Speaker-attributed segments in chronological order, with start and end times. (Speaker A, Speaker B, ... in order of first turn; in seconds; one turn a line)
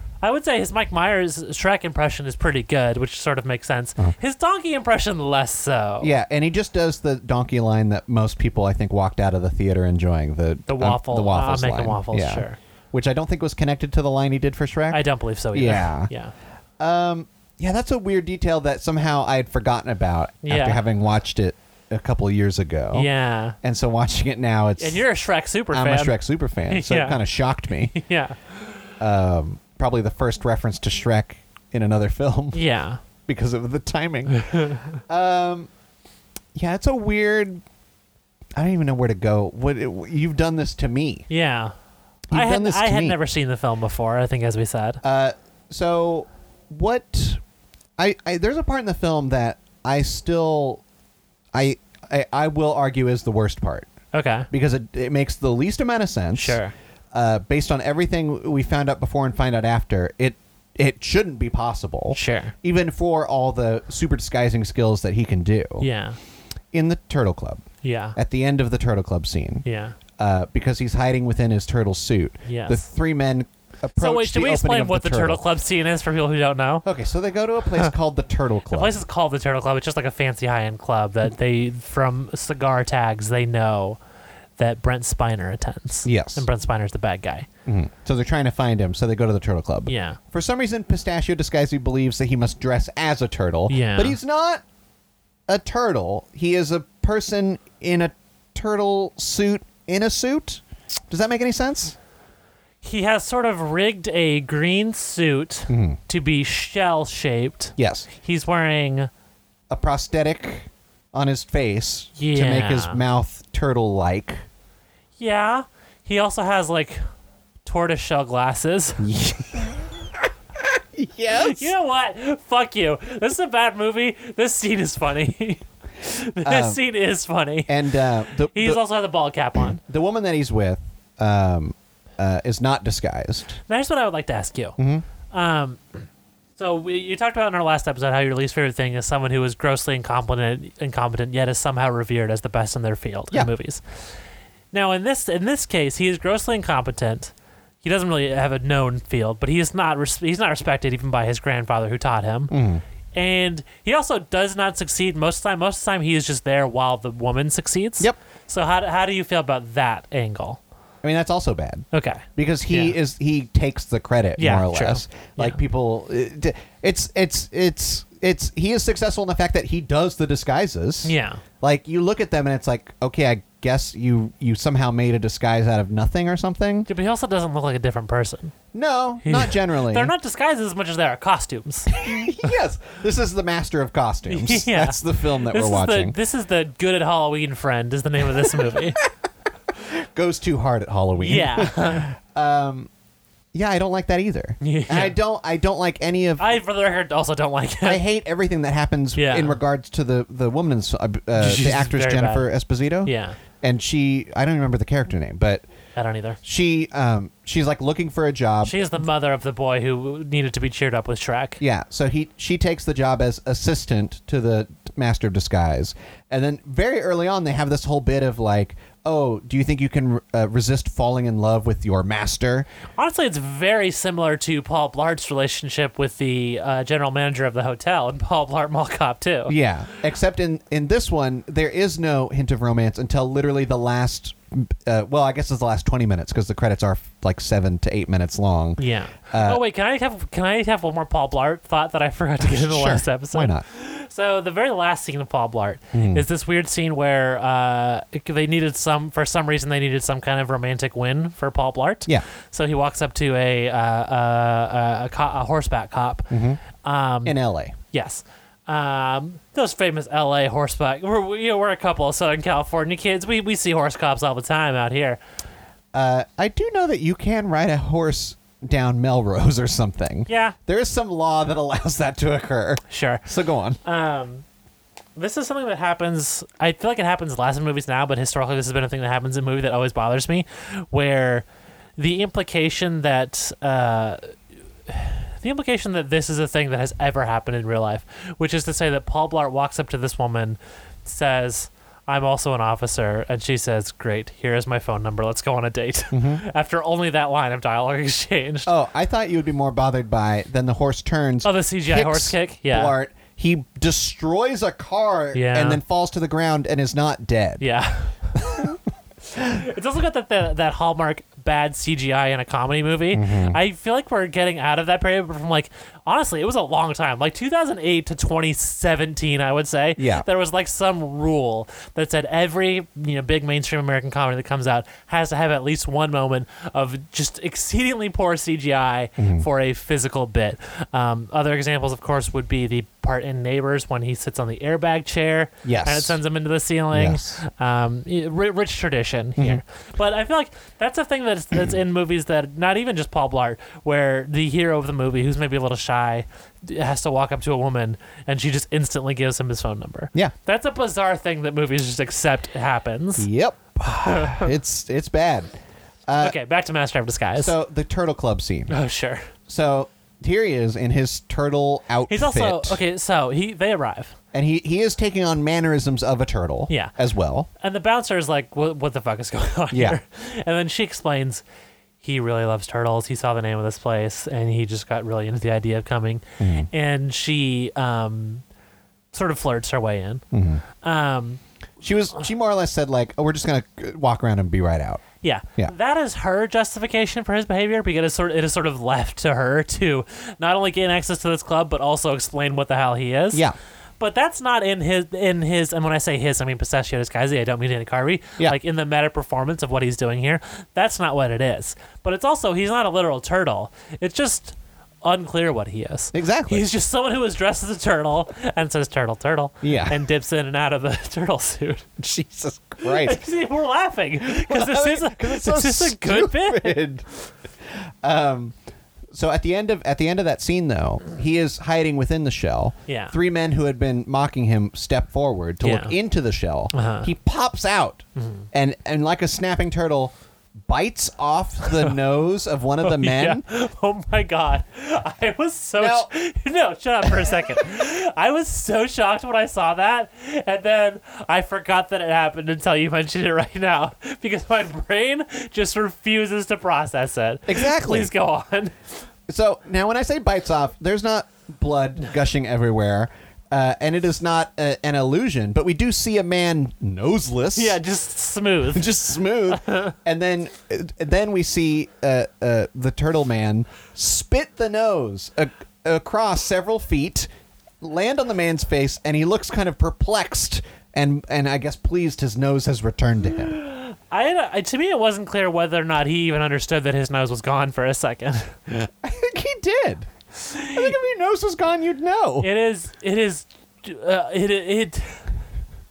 Speaker A: 0.2-6.1
Speaker B: 6.0-16.1
Speaker A: 10.7-12.6
Speaker A: 14.9-16.3
Speaker B: 16.8-23.1
Speaker A: 20.4-20.8
Speaker A: 22.9-23.6
Speaker B: 23.6-25.0
Speaker A: 24.8-26.2
Speaker B: 25.7-27.9
Speaker A: 26.7-27.2
Speaker A: 27.9-28.8
Speaker B: 29.0-32.6
Speaker A: 32.5-33.0
Speaker B: 33.2-34.4
Speaker A: 34.3-34.9
Speaker B: 34.9-35.7
Speaker B: 36.5-37.6
Speaker B: 38.5-41.3
Speaker A: 41.3-41.7
Speaker B: 42.3-43.2
Speaker A: 42.3-45.0
Speaker B: 45.0-47.4
Speaker B: 48.0-50.8
Speaker B: 51.5-53.9
Speaker A: 54.1-54.5
Speaker B: 54.5-56.6
Speaker A: 56.3-56.7
Speaker B: 57.1-65.9
Speaker A: 62.1-62.5
Speaker A: 65.8-66.2
Speaker B: 66.7-67.6
Speaker A: 67.8-68.2
Speaker B: 68.2-69.6
Speaker A: 69.6-70.0
Speaker B: 70.2-75.4
Speaker A: 72.5-72.8
Speaker A: 74.0-76.8
Speaker B: 76.8-79.0
Speaker A: 78.7-84.0
Speaker A: 84.6-87.5
Speaker B: 86.0-86.5
Speaker B: 87.7-94.6
Speaker A: 89.9-90.2
Speaker A: 93.7-94.2
Speaker B: 95.5-102.0
Speaker A: 102.8-109.1
Speaker B: 105.7-106.0
Speaker B: 107.8-108.1
Speaker B: 109.7-114.4
Speaker A: 112.2-113.0
Speaker A: 115.2-117.0
Speaker A: 117.6-119.0
Speaker B: 119.0-121.7
Speaker A: 121.3-127.8
Speaker B: 126.4-126.8
Speaker B: 127.7-128.8
Speaker A: 128.5-129.8
Speaker B: 129.7-133.6
Speaker A: 133.7-134.8
Speaker B: 134.8-135.1
Speaker A: 135.3-136.0
Speaker A: 136.6-143.8
Speaker A: 144.7-147.3
Speaker A: 147.8-152.5
Speaker B: 152.5-152.8
Speaker A: 153.1-160.6
Speaker B: 161.0-176.9
Speaker A: 161.9-162.9
Speaker A: 164.4-165.6
Speaker A: 171.0-171.4
Speaker A: 176.9-178.5
Speaker B: 178.7-180.1
Speaker A: 179.2-182.0
Speaker B: 181.9-186.2
Speaker A: 184.3-189.0
Speaker B: 188.4-189.1
Speaker B: 189.8-192.9
Speaker A: 191.2-192.1
Speaker B: 193.5-196.5
Speaker A: 194.6-195.2
Speaker A: 196.4-198.0
Speaker B: 197.8-205.6
Speaker A: 199.2-199.6
Speaker A: 201.4-202.5
Speaker A: 203.0-203.4
Speaker A: 205.9-206.4
Speaker B: 206.4-208.8
Speaker A: 208.6-211.6
Speaker B: 211.6-222.7
Speaker A: 223.0-229.5
Speaker B: 229.5-239.6
Speaker A: 238.8-257.4
Speaker B: 242.4-243.6
Speaker B: 245.9-246.2
Speaker B: 256.3-256.6
Speaker B: 257.2-257.7
Speaker A: 257.9-265.2
Speaker B: 265.9-273.8
Speaker A: 270.3-270.6
Speaker A: 272.9-273.2
Speaker A: 273.8-274.4
Speaker A: 275.1-281.4
Speaker A: 282.0-284.3
Speaker A: 284.9-298.7
Speaker B: 296.1-296.4
Speaker B: 298.6-307.6
Speaker A: 301.4-302.9
Speaker A: 305.3-305.8
Speaker A: 307.6-308.7
Speaker B: 308.4-308.8
Speaker A: 309.4-353.3
Speaker B: 313.1-313.6
Speaker B: 320.0-320.2
Speaker B: 329.2-329.4
Speaker B: 335.6-336.2
Speaker B: 336.9-337.4
Speaker B: 339.4-339.6
Speaker B: 353.2-355.5
Speaker A: 354.0-354.5
Speaker B: 356.1-356.4
Speaker A: 356.2-357.5
Speaker B: 357.4-358.7
Speaker A: 358.7-359.3
Speaker B: 359.5-362.8
Speaker A: 362.1-364.1
Speaker B: 364.3-367.5
Speaker A: 367.6-371.4
Speaker B: 369.7-370.0
Speaker A: 372.0-378.4
Speaker B: 376.4-376.7
Speaker A: 379.1-380.2
Speaker B: 380.3-380.6
Speaker A: 380.8-381.4
Speaker B: 381.8-385.0
Speaker A: 385.2-393.4
Speaker A: 394.0-411.9
Speaker B: 406.1-406.6
Speaker B: 409.6-410.0
Speaker B: 412.0-413.2
Speaker A: 412.8-416.8
Speaker B: 414.2-417.1
Speaker B: 417.6-418.5
Speaker B: 419.1-433.4
Speaker A: 422.9-423.1
Speaker A: 425.6-425.9
Speaker A: 426.7-427.1
Speaker A: 428.2-428.4
Speaker A: 432.8-448.8
Speaker B: 435.8-436.1
Speaker B: 447.5-448.1
Speaker B: 449.3-457.8
Speaker A: 457.5-458.9
Speaker B: 458.7-467.3
Speaker A: 459.6-459.9
Speaker B: 467.8-473.6
Speaker A: 473.6-478.6
Speaker B: 478.7-480.1
Speaker A: 480.5-480.9
Speaker B: 480.7-482.5
Speaker A: 482.4-485.2